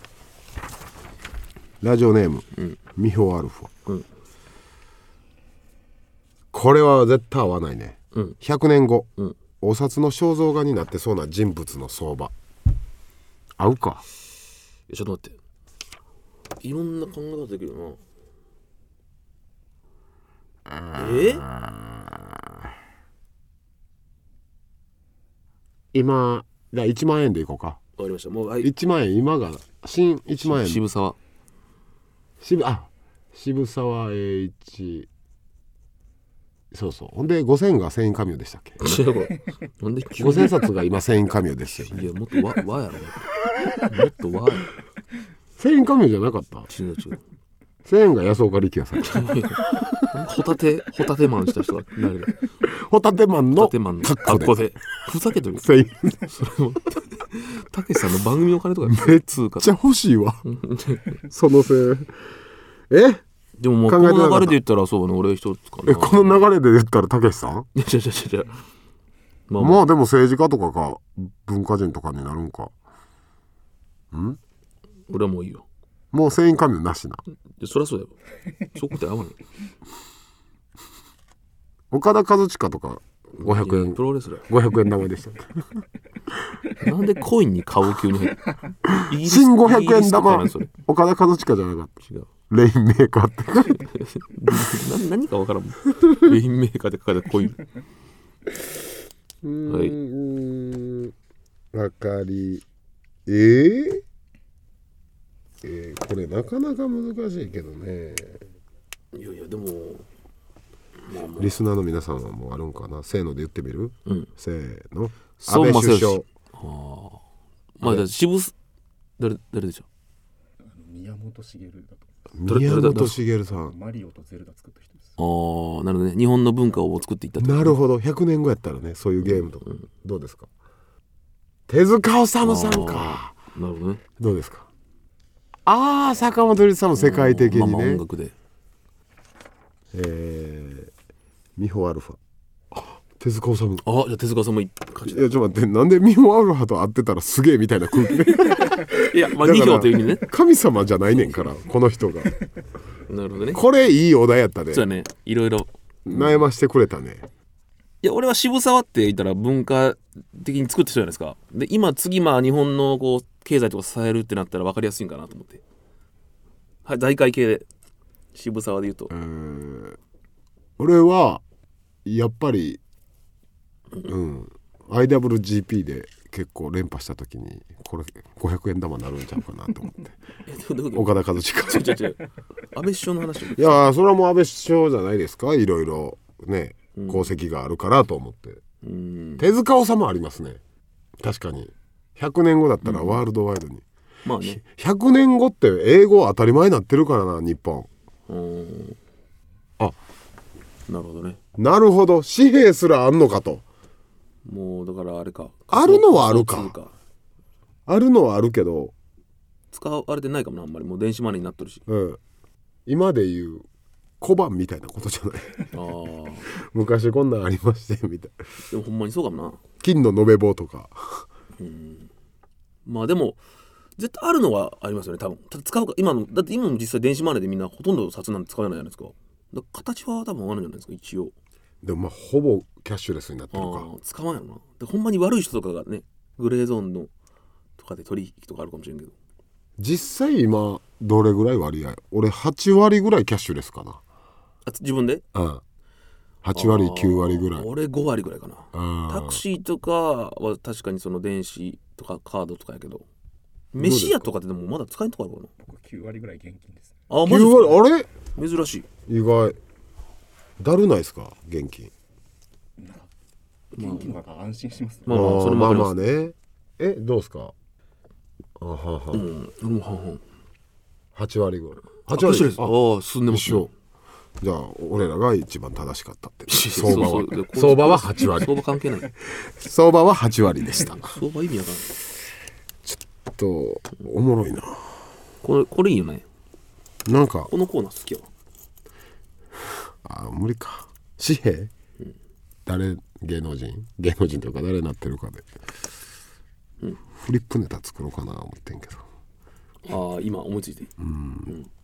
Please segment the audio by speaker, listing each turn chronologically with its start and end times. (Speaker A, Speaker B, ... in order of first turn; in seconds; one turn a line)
Speaker A: 1.8-3.7
Speaker A: 6.5-9.1
Speaker A: 9.6-12.3
Speaker A: 13.6-14.0
Speaker B: 14.9-15.4
Speaker B: 16.6-18.0
Speaker A: 20.7-22.4
Speaker B: 20.9-21.5
Speaker A: 25.9-27.8
Speaker B: 28.0-28.7
Speaker A: 28.6-30.8
Speaker B: 30.4-31.2
Speaker A: 32.4-35.1
Speaker A: 36.7-38.8
Speaker B: 38.8-40.6
Speaker A: 40.2-42.0
Speaker B: 41.9-43.3
Speaker B: 43.8-44.7
Speaker A: 45.6-46.7
Speaker B: 46.7-47.2
Speaker A: 47.9-50.0
Speaker B: 49.0-52.4
Speaker A: 52.6-54.6
Speaker B: 53.6-59.7
Speaker A: 55.6-56.2
Speaker A: 58.9-60.4
Speaker B: 60.5-61.2
Speaker A: 61.2-62.3
Speaker A: 62.9-63.2
Speaker B: 63.6-66.5
Speaker A: 63.9-64.6
Speaker A: 65.8-67.7
Speaker B: 67.8-68.6
Speaker B: 69.5-69.8
Speaker A: 69.6-72.7
Speaker A: 74.1-74.4
Speaker B: 75.1-75.7
Speaker A: 76.1-77.2
Speaker B: 77.6-78.2
Speaker B: 78.7-79.4
Speaker A: 81.9-85.6
Speaker B: 83.4-84.5
Speaker B: 86.7-90.7
Speaker A: 88.9-92.0
Speaker A: 92.5-93.8
Speaker B: 93.8-97.7
Speaker A: 99.4-101.1
Speaker B: 99.7-100.0
Speaker A: 101.7-102.6
Speaker A: 103.3-104.0
Speaker A: 105.6-108.5
Speaker B: 109.1-110.1
Speaker B: 111.1-111.6
Speaker A: 111.3-116.2
Speaker B: 115.4-117.2
Speaker B: 117.8-118.5
Speaker A: 117.8-118.1
Speaker B: 119.2-119.9
Speaker C: 120.7-122.1
Speaker A: 122.3-123.8
Speaker B: 122.5-123.2
Speaker C: 123.8-125.0
Speaker B: 125.2-127.8
Speaker A: 127.4-130.5
Speaker B: 129.2-129.8
Speaker A: 131.7-133.3
Speaker B: 132.4-134.0
Speaker A: 134.2-134.7
Speaker A: 135.7-138.0
Speaker B: 136.9-138.3
Speaker A: 139.9-140.9
Speaker A: 141.6-142.2
Speaker A: 142.7-143.8
Speaker B: 143.8-145.3
Speaker A: 145.0-152.4
Speaker B: 148.9-150.3
Speaker B: 153.1-153.6
Speaker A: 153.5-154.9
Speaker B: 154.7-156.4
Speaker A: 156.1-157.3
Speaker B: 158.0-165.6
Speaker B: 166.8-167.7
Speaker B: 168.3-169.1
Speaker A: 169.1-170.0
Speaker A: 170.8-171.4
Speaker A: 172.1-172.8
Speaker A: 174.1-180.2
Speaker B: 180.5-183.8
Speaker A: 180.9-182.0
Speaker A: 183.6-188.6
Speaker B: 187.0-187.3
Speaker B: 188.8-189.5
Speaker A: 189.4-190.6
Speaker A: 191.2-193.8
Speaker B: 192.8-193.2
Speaker B: 194.2-194.6
Speaker A: 194.4-197.9
Speaker B: 198.3-199.0
Speaker B: 200.9-201.4
Speaker A: 201.6-203.6
Speaker B: 204.4-206.9
Speaker A: 205.7-206.8
Speaker A: 207.9-208.9
Speaker B: 209.7-211.8
Speaker A: 211.9-212.2
Speaker A: 212.9-213.7
Speaker A: 214.2-215.7
Speaker B: 215.7-216.5
Speaker A: 216.5-218.3
Speaker B: 218.7-219.6
Speaker A: 219.8-221.3
Speaker B: 221.6-222.1
Speaker B: 222.8-223.4
Speaker B: 224.0-231.3
Speaker A: 231.8-233.9
Speaker B: 233.5-237.1
Speaker B: 237.8-239.1
Speaker A: 239.8-244.0
Speaker B: 244.7-245.2
Speaker A: 245.3-245.6
Speaker A: 246.4-247.7
Speaker B: 246.6-253.1
Speaker A: 248.7-249.4
Speaker B: 253.7-255.5
Speaker A: 253.8-254.3
Speaker C: 255.7-257.1
Speaker B: 257.1-257.8
Speaker A: 257.2-258.1
Speaker B: 258.4-258.9
Speaker A: 259.1-259.6
Speaker A: 260.6-261.9
Speaker B: 263.7-264.2
Speaker C: 264.1-265.1
Speaker B: 265.1-266.0
Speaker A: 265.1-267.5
Speaker A: 268.6-269.3
Speaker B: 269.1-270.2
Speaker A: 271.1-272.8
Speaker B: 272.1-273.7
Speaker A: 273.3-273.7
Speaker A: 274.4-278.6
Speaker B: 276.5-279.1
Speaker A: 279.2-281.2
Speaker B: 280.8-281.9
Speaker A: 282.9-285.0
Speaker B: 285.4-286.2
Speaker A: 287.1-287.5
Speaker B: 287.5-288.3
Speaker A: 290.0-291.7
Speaker A: 292.7-295.5
Speaker A: 297.2-299.0
Speaker B: 299.9-300.9
Speaker A: 301.0-301.6